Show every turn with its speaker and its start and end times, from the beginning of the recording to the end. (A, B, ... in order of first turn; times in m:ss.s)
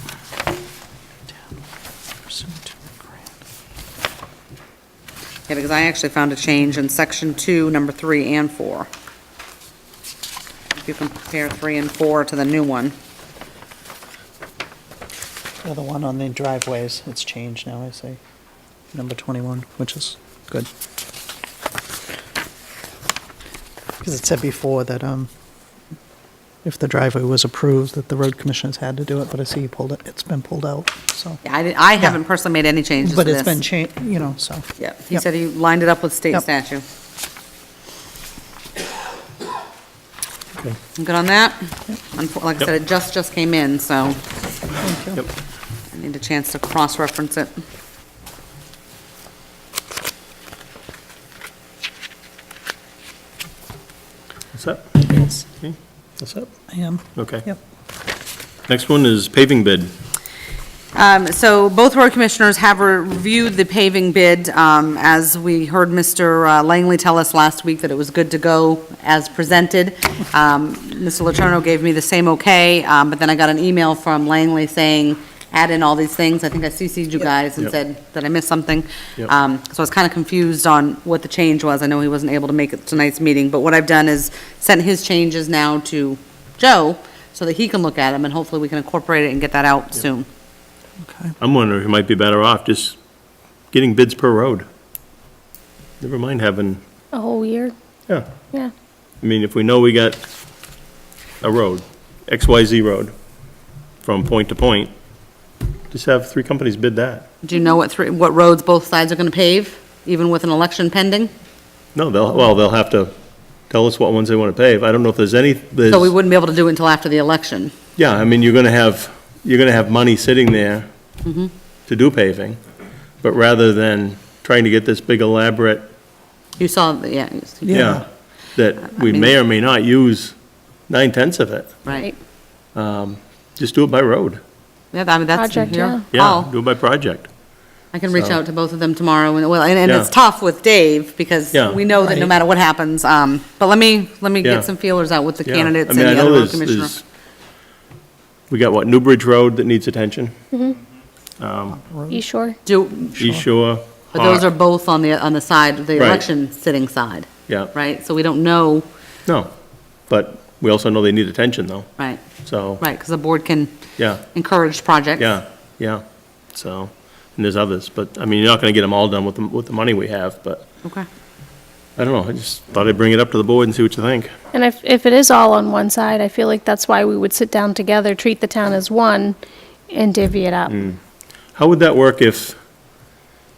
0:02.2-0:03.1 A
0:05.5-0:08.9 B
0:10.7-0:12.9 B
0:15.6-0:18.2 A
0:18.9-0:20.7 A
0:24.0-0:25.3 A
0:26.6-0:31.4 A
0:31.4-0:33.6 B
0:33.0-0:35.2 A
0:34.8-0:36.8 B
0:41.0-0:41.6 B
0:42.1-0:44.2 B
0:44.8-0:45.2 A
0:45.9-0:47.5 B
0:54.5-0:56.5 C
0:56.7-0:57.6 A
0:57.2-0:57.4 C
0:58.7-0:59.9 C
1:00.9-1:30.3 B
1:31.0-1:31.3 A
1:31.4-1:33.0 C
1:33.7-1:34.6 C
1:36.0-1:36.8 C
1:37.1-1:37.7 D
1:39.2-1:40.2 C
1:41.4-1:43.1 C
1:44.0-1:44.9 C
1:45.9-1:47.3 C
1:47.4-1:51.3 B
1:51.9-1:53.1 C
1:53.7-1:56.1 C
1:55.9-1:57.7 B
1:58.0-2:00.9 C
2:01.2-2:01.5 B
2:01.9-2:02.6 C
2:03.2-2:05.9 C
2:06.6-2:08.0 B
2:07.7-2:08.0 A
2:07.7-2:08.0 C
2:08.5-2:10.3 C
2:08.9-2:09.3 B
2:10.9-2:11.8 C
2:11.8-2:12.1 B
2:12.7-2:14.4 C
2:14.9-2:16.5 B
2:15.3-2:16.0 D
2:16.1-2:17.3 C
2:17.9-2:26.9 B
2:19.8-2:20.1 C
2:21.5-2:21.8 C
2:24.4-2:24.7 C
2:25.4-2:27.0 C
2:28.5-2:30.3 C
2:31.4-2:31.8 C
2:31.7-2:32.2 A
2:32.1-2:32.6 D
2:32.6-2:33.2 B
2:33.2-2:34.5 C
2:34.1-2:38.9 B
2:36.0-2:36.2 C
2:37.5-2:37.7 C
2:40.1-2:41.9 C
2:42.0-2:42.2 B
2:42.4-2:42.8 C
2:42.8-2:43.7 B
2:44.0-2:44.2 C
2:44.3-2:45.3 B
2:45.2-2:46.0 C
2:46.5-2:50.6 C
2:52.0-2:54.3 C
2:54.5-2:59.4 D
2:59.9-3:00.8 D
3:00.7-3:01.0 C
3:01.5-3:02.6 C